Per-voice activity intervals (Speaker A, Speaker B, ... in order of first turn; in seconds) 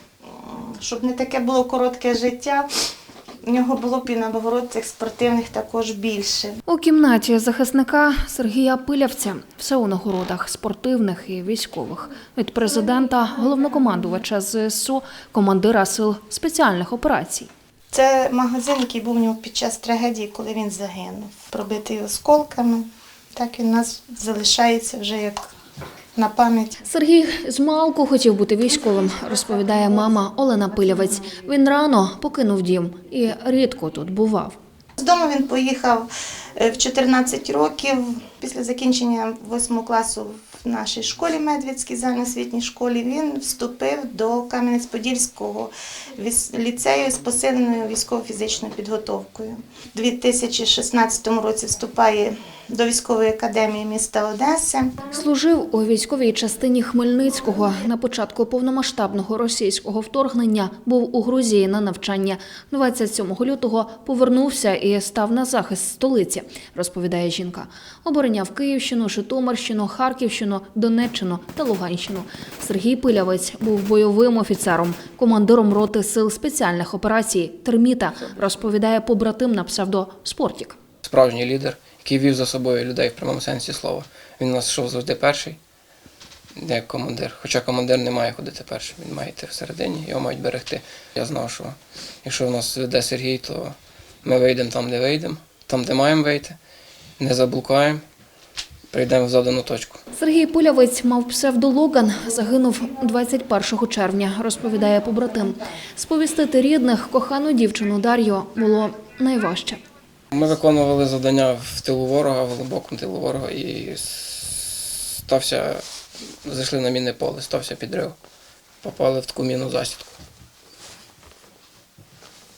Speaker A: 0.2-2.7, 3.4-6.6, 17.9-25.4, 26.1-26.8, 35.0-54.9
Speaker B: 6.7-17.5, 26.8-34.6, 55.0-80.8, 100.1-109.8
Speaker C: 81.0-85.6, 86.5-96.5, 97.2-98.0, 98.9-100.0, 110.3-115.8, 116.4-118.2, 118.8-120.1